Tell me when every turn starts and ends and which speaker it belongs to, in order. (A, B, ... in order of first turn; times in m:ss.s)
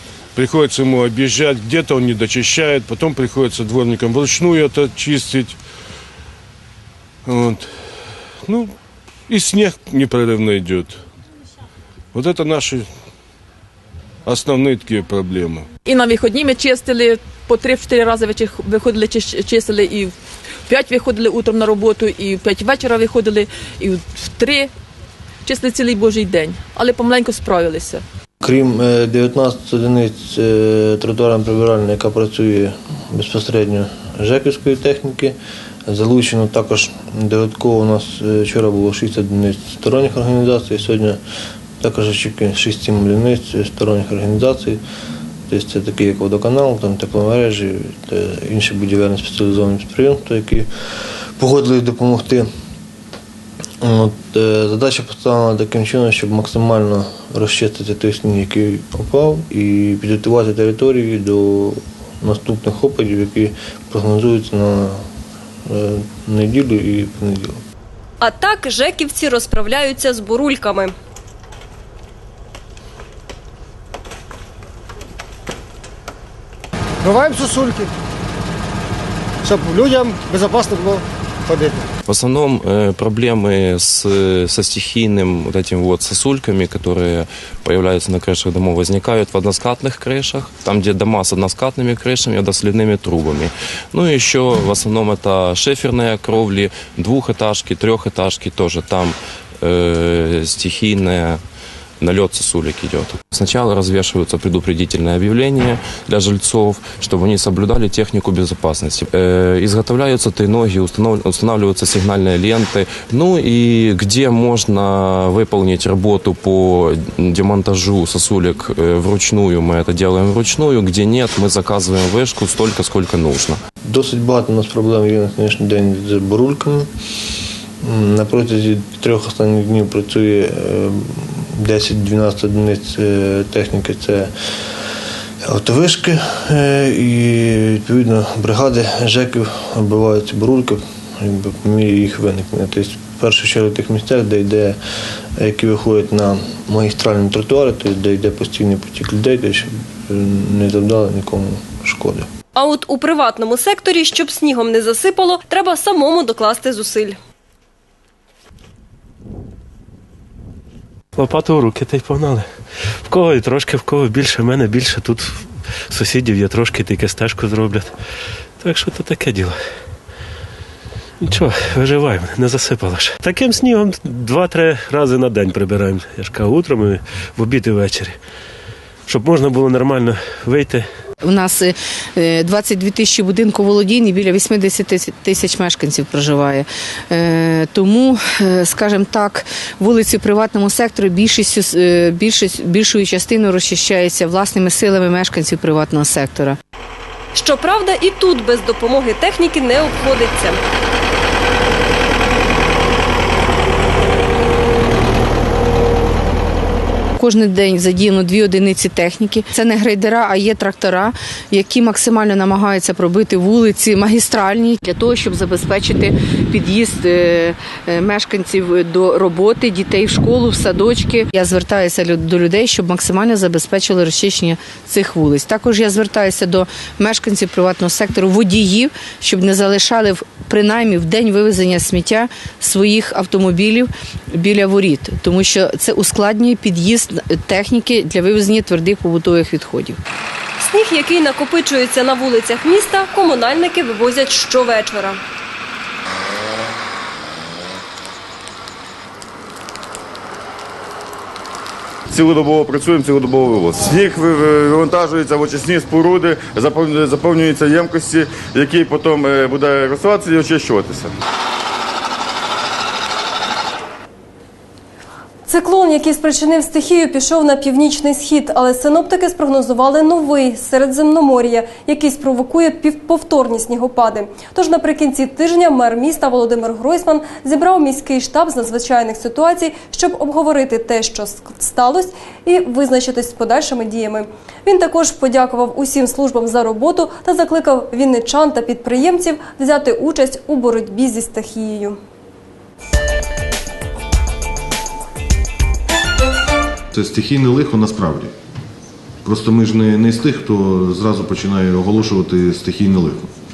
0:00.4-0:05.6 A
0:07.3-0:07.7 A
0:08.5-0:08.7 A
0:09.3-0:11.0 A
0:12.1-0:12.9 A
0:14.3-0:15.7 A
0:15.9-0:20.1 B
0:20.7-0:24.7 B
0:25.4-0:28.0 B
0:28.4-0:41.2 C
0:41.8-0:44.8 C
0:45.5-0:52.5 C
0:53.8-1:05.0 C
1:05.7-1:07.6 C
1:08.2-1:10.9 D
1:17.0-1:17.9 E
1:19.4-1:21.8 E
1:22.1-1:41.4 F
1:42.0-2:03.6 F
2:03.8-2:06.9 C
2:07.8-2:14.3 C
2:15.4-2:24.8 C
2:25.4-2:32.3 C
2:32.6-2:37.2 D
2:41.2-2:47.9 G
2:48.6-2:49.6 G
2:51.2-2:58.2 G
2:59.1-3:00.9 G
3:01.2-3:16.6 H
3:17.4-3:20.6 D
3:27.2-4:00.0 H
4:00.6-4:05.2 D
4:12.1-4:21.1 I
4:25.5-4:52.0 D
4:56.9-4:58.3 J
4:59.2-5:03.3 J